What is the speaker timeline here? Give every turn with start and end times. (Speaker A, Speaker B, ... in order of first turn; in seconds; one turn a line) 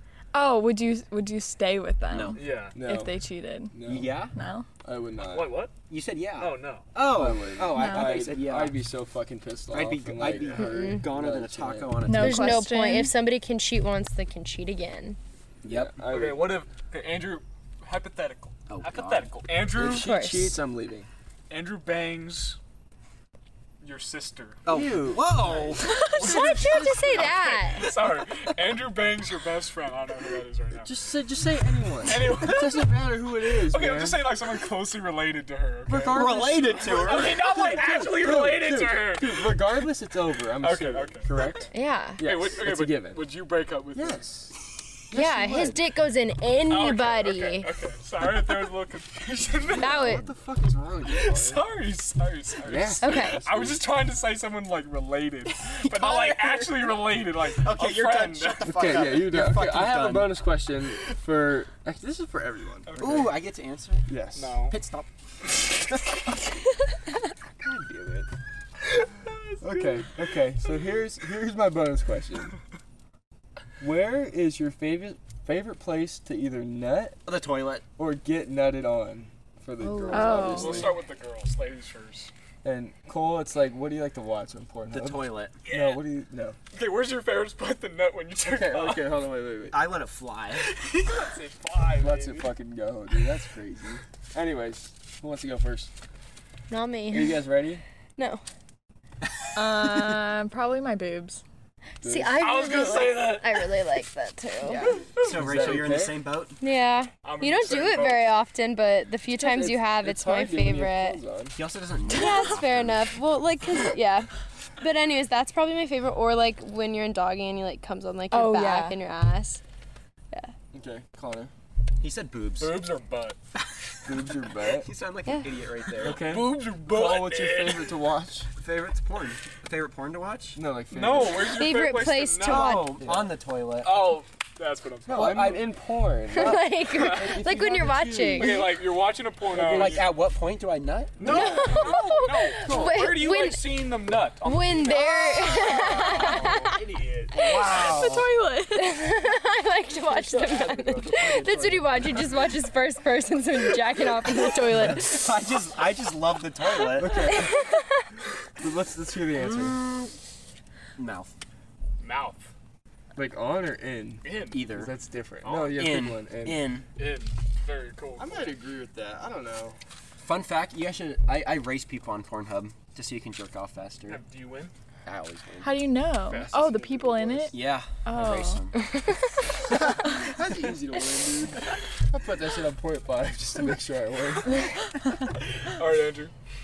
Speaker A: 0.3-3.8
Speaker B: 2.1-2.4
Speaker C: 2.4-2.8
Speaker D: 2.7-4.2
Speaker B: 3.8-4.3
Speaker A: 4.3-4.7
Speaker D: 4.8-5.6
Speaker C: 5.2-5.7
Speaker B: 5.9-8.8
Speaker C: 6.3-6.9
Speaker D: 7.0-12.0
Speaker A: 7.7-8.3
Speaker B: 9.7-12.6
Speaker E: 10.6-11.1
Speaker A: 12.0-13.1
Speaker E: 12.1-15.2
Speaker B: 15.6-15.9
Speaker D: 15.6-16.6
Speaker C: 16.1-20.1
Speaker B: 18.7-19.3
Speaker D: 19.7-21.1
Speaker E: 19.8-20.6
Speaker C: 21.5-22.6
Speaker C: 23.8-24.6
Speaker B: 24.6-25.9
Speaker D: 24.7-25.8
Speaker C: 25.9-31.0
Speaker A: 25.9-26.5
Speaker E: 26.2-27.9
Speaker D: 30.8-34.3
Speaker C: 32.0-39.6
Speaker D: 35.9-43.2
Speaker B: 35.9-37.8
Speaker C: 40.6-41.7
Speaker E: 41.7-42.2
Speaker C: 42.2-44.3
Speaker D: 43.9-44.5
Speaker E: 45.1-47.7
Speaker D: 45.1-45.7
Speaker B: 45.3-45.7
Speaker C: 46.7-50.2
Speaker D: 49.7-51.6
Speaker E: 49.8-50.3
Speaker C: 51.0-59.1
Speaker D: 52.6-53.8
Speaker E: 53.0-53.4
Speaker B: 55.7-56.9
Speaker B: 57.5-60.4
Speaker D: 58.6-63.2
Speaker C: 62.8-63.4
Speaker B: 63.0-64.1
Speaker D: 64.1-64.5
Speaker C: 64.3-64.8
Speaker B: 64.7-66.1
Speaker D: 67.6-68.3
Speaker C: 69.3-70.0
Speaker D: 69.6-72.6
Speaker D: 73.8-77.2
Speaker B: 77.2-77.8
Speaker D: 78.0-81.0
Speaker E: 79.8-80.8
Speaker A: 80.1-80.9
Speaker C: 80.5-82.3
Speaker D: 82.6-86.6
Speaker B: 84.9-85.5
Speaker C: 85.7-86.0
Speaker C: 86.7-89.2
Speaker D: 88.5-89.8
Speaker B: 89.7-90.7
Speaker C: 90.6-92.5
Speaker D: 91.9-95.9
Speaker E: 96.7-97.4
Speaker D: 97.1-97.8
Speaker E: 98.2-98.4
Speaker A: 99.5-101.4
Speaker E: 102.0-104.9
Speaker D: 102.0-102.3
Speaker C: 102.4-103.7
Speaker A: 104.7-105.0
Speaker D: 105.2-106.2
Speaker B: 105.2-106.6
Speaker E: 106.6-111.2
Speaker C: 107.2-108.3
Speaker D: 109.3-111.6
Speaker B: 111.5-113.1
Speaker E: 112.1-114.3
Speaker E: 114.8-119.6
Speaker A: 118.3-119.0
Speaker D: 120.7-121.5
Speaker B: 122.0-122.9
Speaker C: 122.6-123.4
Speaker B: 123.7-126.2
Speaker D: 124.0-124.9
Speaker E: 125.2-125.5
Speaker D: 126.0-128.5
Speaker C: 126.0-128.0
Speaker B: 128.6-130.6
Speaker D: 130.6-131.4
Speaker C: 130.9-132.9
Speaker E: 131.3-133.0
Speaker B: 132.4-134.2
Speaker C: 133.8-135.6
Speaker D: 135.1-138.6
Speaker B: 135.1-135.7
Speaker E: 136.3-138.7
Speaker C: 136.9-137.3
Speaker C: 138.4-140.1
Speaker D: 139.5-140.1
Speaker B: 139.6-141.9
Speaker D: 141.2-141.5
Speaker E: 141.2-143.9
Speaker C: 141.6-147.3
Speaker D: 142.6-143.0
Speaker E: 144.4-146.8
Speaker B: 147.3-148.3
Speaker A: 147.5-149.2
Speaker E: 148.7-155.3
Speaker C: 150.1-152.0
Speaker D: 151.0-151.9
Speaker B: 154.7-157.4
Speaker D: 156.9-157.6
Speaker E: 157.3-157.8
Speaker D: 158.6-159.8
Speaker B: 159.3-160.1
Speaker B: 161.0-161.3
Speaker C: 162.0-162.5
Speaker D: 163.1-166.6
Speaker C: 164.2-164.6
Speaker B: 164.5-164.9
Speaker C: 165.4-165.8
Speaker B: 165.7-166.8
Speaker C: 166.9-168.6
Speaker D: 168.2-169.8
Speaker B: 170.2-174.2
Speaker C: 174.1-174.7
Speaker B: 175.0-175.8
Speaker A: 175.6-178.7
Speaker D: 176.3-177.5
Speaker C: 176.3-176.8
Speaker B: 177.5-178.7
Speaker E: 178.7-179.2
Speaker D: 180.2-184.6
Speaker C: 185.4-186.3